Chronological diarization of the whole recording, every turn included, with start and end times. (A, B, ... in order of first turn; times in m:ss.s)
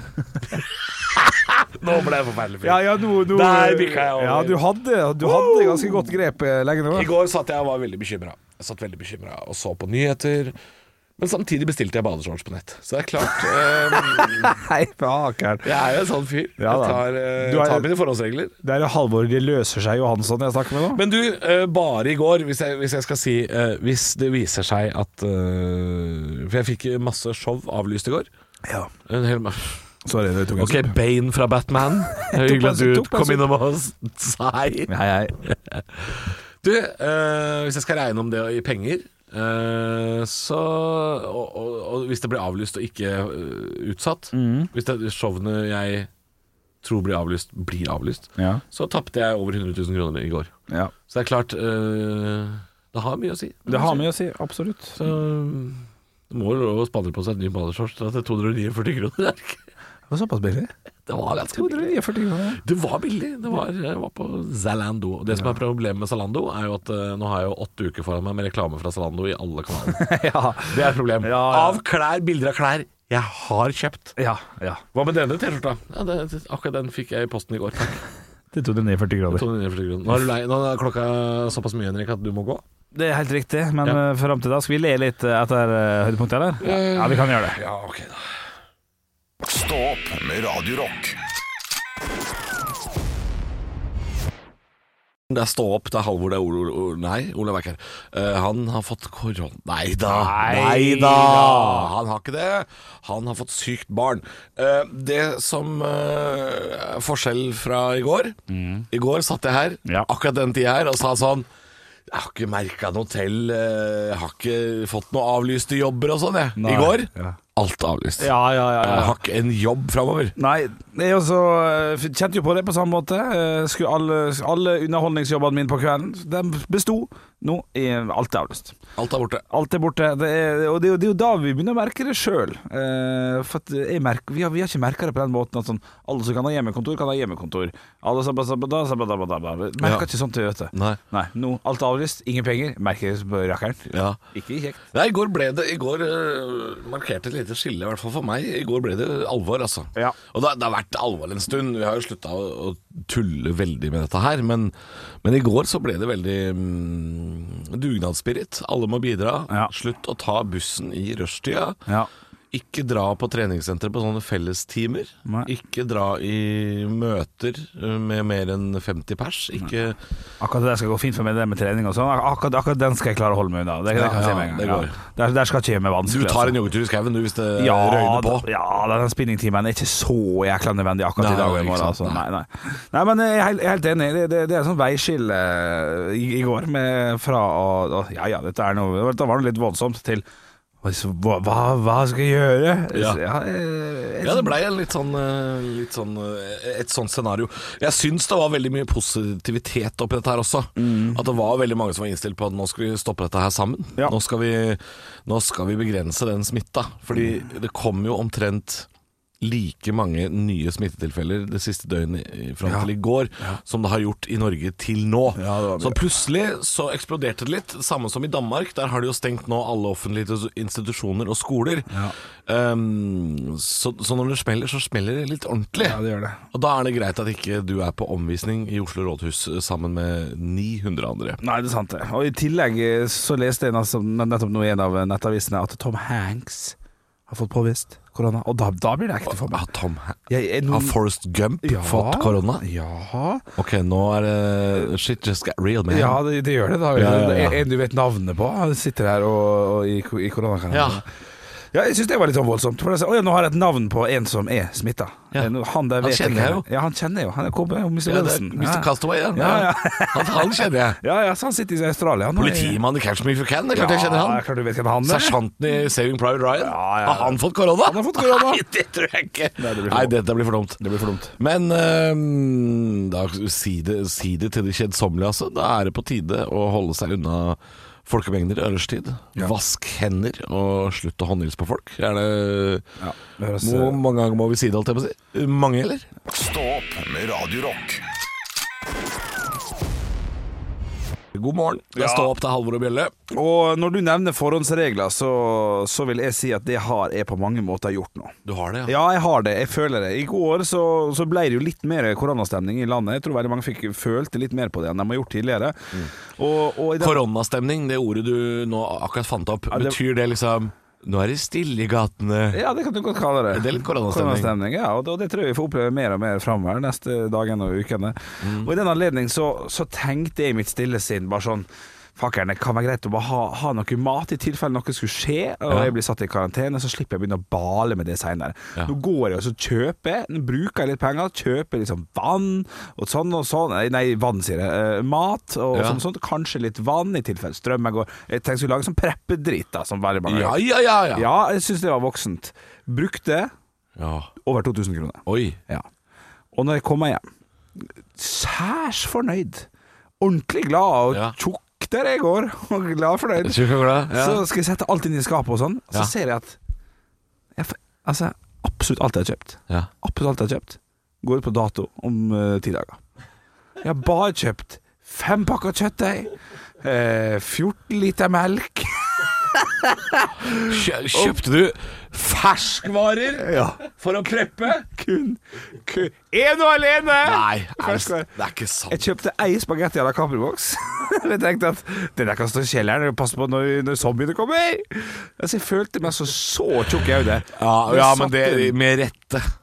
0:00.4-0:04.6 A
0:02.6-0:07.1 B
0:05.2-0:06.2 A
0:06.9-0:10.5 A
0:11.2-0:14.6 A
0:13.9-0:15.7 B
0:15.6-0:18.6 A
0:16.6-0:17.8 B
0:18.6-0:21.0 B
0:20.9-0:28.3 A
0:29.1-0:29.8 A
0:30.0-0:30.9 B
0:30.6-0:34.9 A
0:32.2-0:33.5 B
0:34.9-0:35.4 B
0:35.4-0:46.1 A
0:44.3-0:44.7 B
0:46.8-0:50.5 A
0:48.4-0:48.6 B
0:51.1-0:54.1 A
0:53.7-0:55.0 B
0:55.0-0:59.6 A
1:00.1-1:00.7 B
1:01.1-1:01.9 A
1:01.5-1:02.6 B
1:02.6-1:10.1 A
1:09.8-1:11.8 B
1:10.7-1:14.1 A
1:14.2-1:14.8 B
1:14.9-1:18.0 A
1:18.5-1:19.4 B
1:19.3-1:22.6 A
1:22.9-1:27.6 B
1:26.6-1:28.3 A
1:29.4-1:31.2 C
1:35.3-1:48.4 A
1:40.1-1:41.9 B
1:48.5-1:48.8 B
1:48.9-1:51.5 A
1:52.1-2:00.3 A
1:56.6-1:57.4 B
1:58.2-1:59.1 B
2:00.4-2:08.7 B
2:09.0-2:09.4 A
2:09.5-2:24.8 B
2:19.8-2:20.0 A
2:20.7-2:21.0 A
2:23.9-2:24.2 A
2:24.9-2:41.8 A
2:42.5-2:50.0 A
2:50.4-2:56.6 B
2:53.9-2:55.0 A
2:56.1-2:58.5 A
2:57.6-3:10.2 B
3:01.2-3:02.2 A
3:10.8-3:14.5 B
3:12.9-3:13.2 A
3:14.2-3:28.9 A
3:20.8-3:21.2 B
3:29.4-3:41.9 A
3:32.6-3:33.6 B
3:35.3-3:36.0 B
3:41.9-3:42.1 B
3:42.5-3:46.0 A
3:45.8-3:46.4 B
3:46.5-3:51.4 A
3:51.4-3:56.7 B
3:57.3-3:59.6 B
3:59.3-4:02.6 A
4:00.3-4:01.0 B
4:01.6-4:03.4 B
4:03.6-4:06.2 A
4:05.9-4:11.0 B
4:06.9-4:07.6 A
4:10.7-4:11.0 A
4:11.7-4:22.8 B
4:16.0-4:16.6 A
4:18.0-4:21.0 A
4:22.4-4:24.4 A
4:23.7-4:25.4 B
4:25.0-4:42.9 A
4:26.6-4:28.6 B
4:29.6-4:30.2 B
4:30.8-4:31.3 B
4:43.0-4:44.0 B
4:43.6-4:46.1 A
4:46.3-4:48.0 C
4:51.3-4:53.1 A
4:51.9-4:52.3 B
4:53.3-4:58.3 B
4:58.4-4:58.9 A
4:58.9-5:07.2 B
5:07.0-5:12.6 A
5:09.7-5:10.0 B
5:12.5-5:40.6 B
5:13.5-5:14.5 A
5:18.4-5:18.7 A
5:35.7-5:36.0 A
5:40.3-5:41.2 A
5:41.1-5:43.5 B
5:44.0-5:44.3 A
5:44.4-5:45.8 B
5:45.2-5:45.6 A
5:46.5-5:47.2 B
5:48.1-5:49.6 B
5:50.2-5:56.6 B
5:53.4-5:54.4 A
5:57.6-6:03.0 B
6:03.8-6:11.4 B
6:10.5-6:14.8 A
6:13.4-6:13.8 B
6:14.9-6:18.3 B
6:17.2-6:19.0 A
6:18.9-6:28.7 B
6:27.6-6:29.4 A